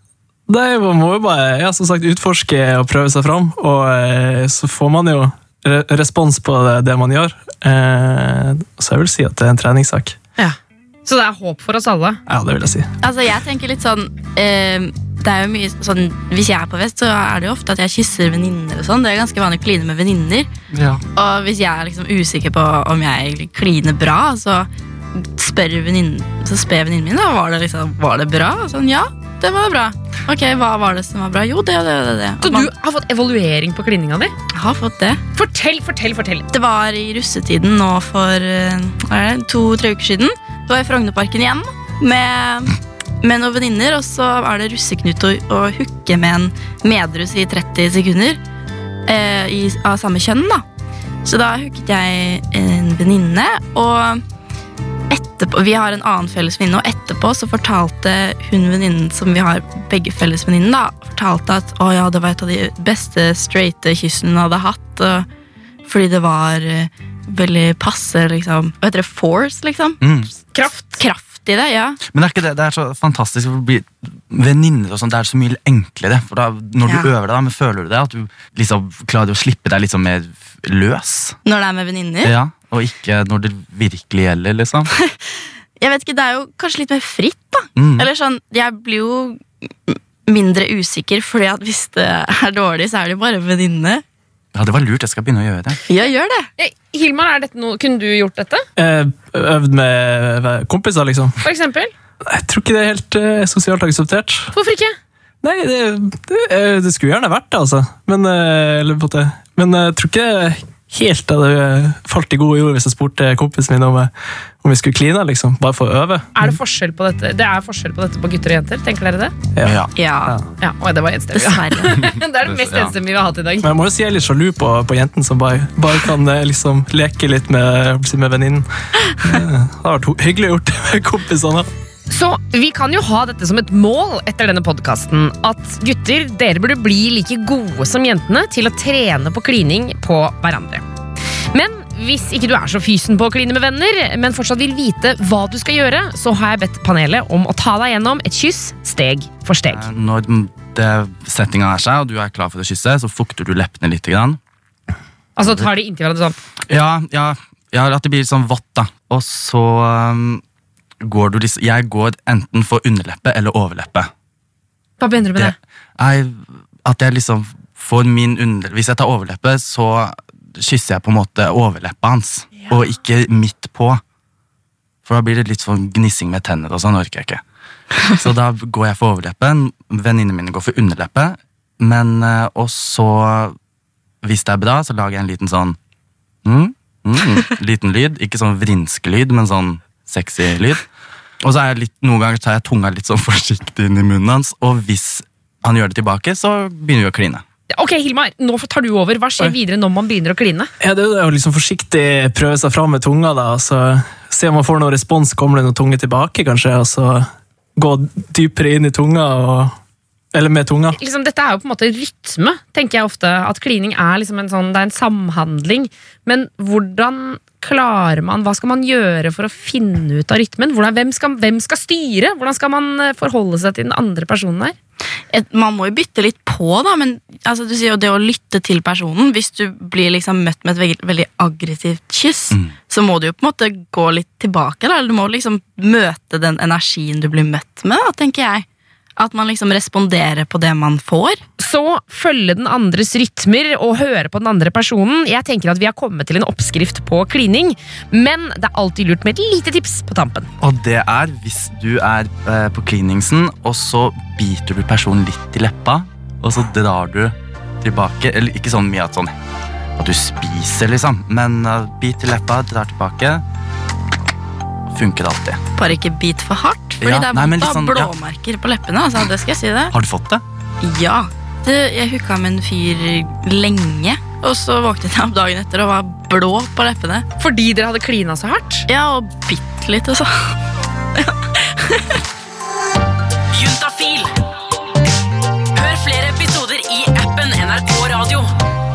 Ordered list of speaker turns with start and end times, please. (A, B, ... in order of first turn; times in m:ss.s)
0:00.5-0:10.2 A
0:10.4-0:12.2 B
0:12.3-0:12.9 A
0:13.0-0:20.5 C
0:20.7-0:21.0 D
0:21.2-0:32.7 C
0:32.4-0:34.3 B
0:34.5-0:35.2 C
0:35.4-0:36.5 B
0:36.5-0:48.4 C
0:49.1-0:50.6 C
0:51.2-0:54.2 C
0:55.1-1:05.3 C
1:05.9-1:10.0 C
1:10.0-1:10.3 D
1:10.5-1:11.0 B
1:11.0-1:12.0 C
1:12.1-1:21.4 D
1:16.8-1:17.1 C
1:21.4-1:22.3 C
1:22.2-1:24.9 D
1:25.8-1:34.0 C
1:27.8-1:28.1 D
1:34.5-1:35.8 D
1:35.9-1:36.5 C
1:36.6-1:38.6 B
1:38.8-1:41.4 A
1:41.4-1:41.9 B
1:42.3-1:44.5 A
1:44.5-1:45.0 B
1:45.4-1:56.6 A
1:56.4-1:59.3 B
1:59.6-2:00.4 A
1:59.6-1:59.9 D
2:00.0-2:00.4 C
2:00.6-2:03.7 B
2:01.3-2:02.0 C
2:02.0-2:03.0 D
2:03.6-2:08.7 A
2:09.2-2:11.7 A
2:12.1-2:20.8 B
2:21.5-2:29.8 B
2:29.7-2:34.4 D
2:35.4-2:36.4 B
2:35.4-2:35.7 D
2:36.7-2:40.4 D
2:41.0-2:44.1 D
2:45.0-2:45.6 B
2:45.4-2:54.0 D
2:55.0-2:57.4 D
2:58.1-3:03.6 D
3:04.2-3:05.8 D
3:06.4-3:10.9 D
3:11.4-3:17.4 D
3:17.7-3:20.7 B
3:20.8-3:29.8 A
3:30.3-3:31.0 A
3:31.0-3:44.7 B
3:45.3-3:58.6 C
3:59.2-4:01.4 C
4:01.6-4:10.5 B
4:10.6-4:19.3 D
4:20.0-4:23.4 D
4:24.9-4:25.6 D
4:25.8-4:29.9 C
4:27.0-4:28.1 D
4:29.9-4:30.4 D
4:30.8-4:37.3 C
4:37.4-4:38.9 B
4:38.9-4:40.6 C
4:41.2-4:42.2 C
4:43.5-4:44.3 E
4:45.7-4:48.5 E